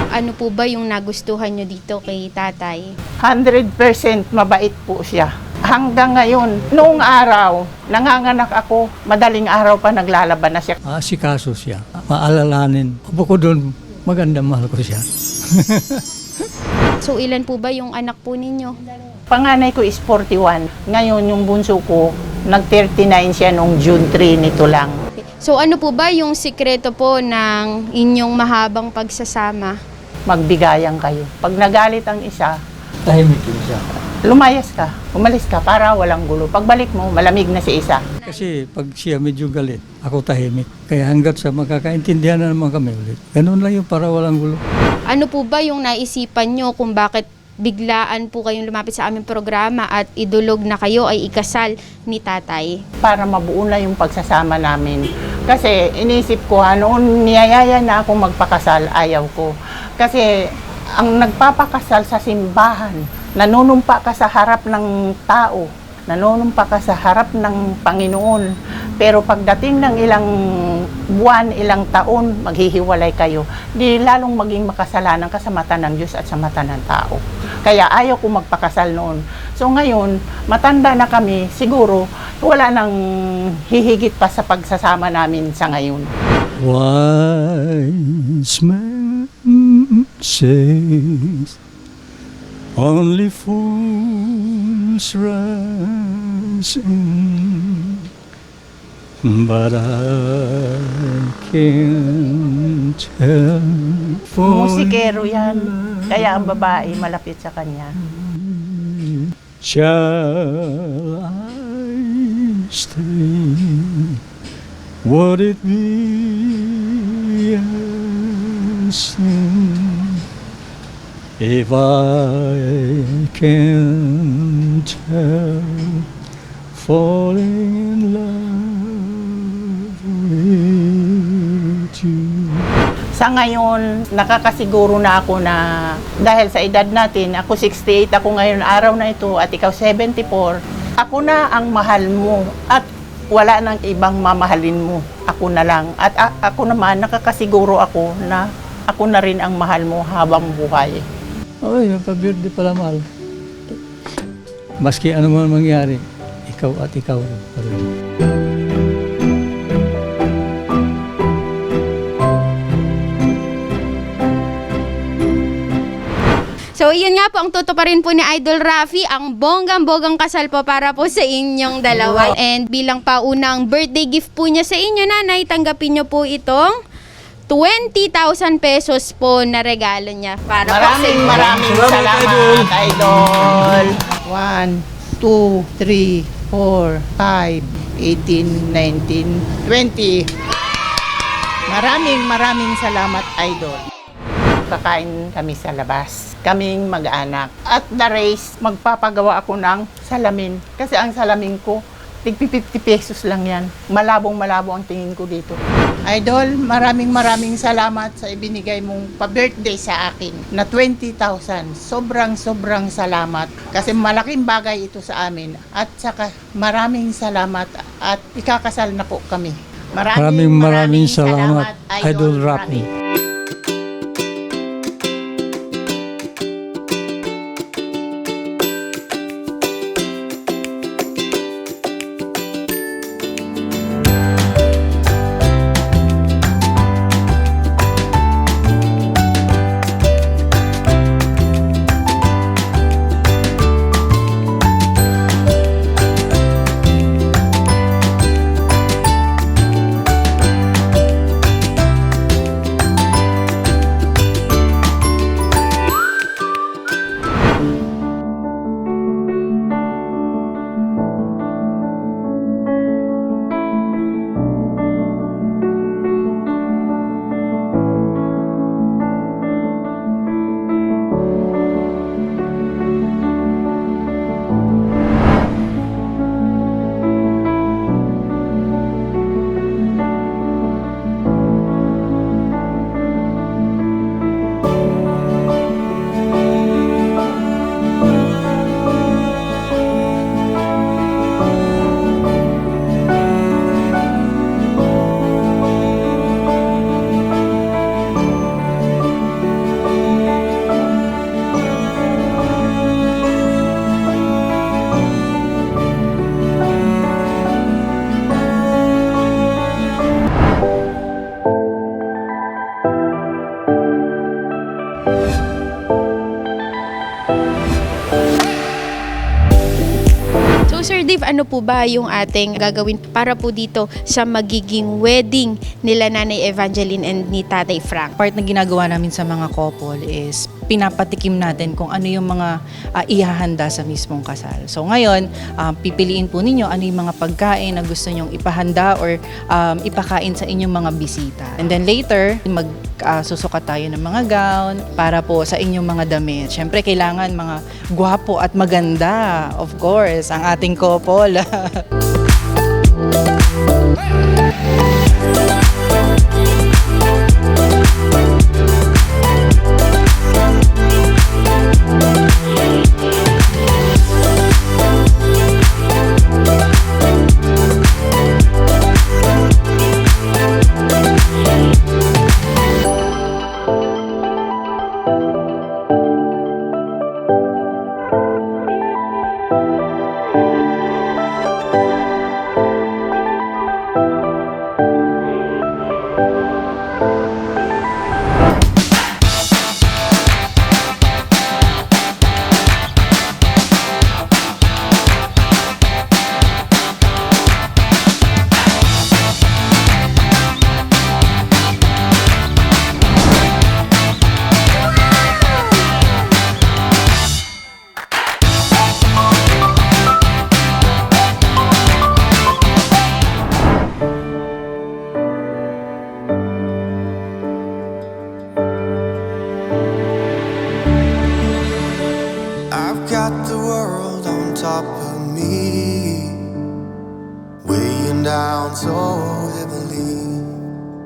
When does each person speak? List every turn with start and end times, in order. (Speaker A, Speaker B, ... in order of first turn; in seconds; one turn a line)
Speaker A: 0.1-2.9
Speaker B: 3.2-10.8
Speaker C: 10.9-16.5
Speaker A: 17.0-18.8
Speaker B: 19.3-24.9
Speaker A: 25.4-29.7
Speaker B: 30.3-32.5
Speaker C: 33.0-33.8
Speaker B: 34.2-38.0
Speaker C: 38.2-44.6
Speaker A: 45.1-52.7
Speaker B: 53.0-60.2
Speaker B: 61.0-83.0
Speaker B: 83.7-86.1
Speaker C: 86.6-91.5
Speaker C: 92.8-98.1
Speaker C: 99.2-106.7
Speaker B: 104.4-107.9
Speaker C: 108.0-114.2
Speaker C: 115.0-120.2
Speaker C: 121.4-126.0
Speaker C: 126.7-132.7
Speaker B: 133.2-135.6
Speaker B: 136.2-151.0
Speaker C: 151.6-153.0
Speaker C: 154.8-157.9
Speaker A: 166.8-176.7
Speaker A: 177.5-181.4
Speaker B: 180.7-190.3
Speaker C: 181.5-182.7
Speaker B: 191.7-193.8
Speaker B: 194.7-222.9
Speaker C: 220.2-222.8
Speaker A: 320.7-328.1
Speaker D: 328.2-332.5
Speaker D: 333.0-351.8
Speaker E: 422.7-426.7
Speaker E: 427.6-430.6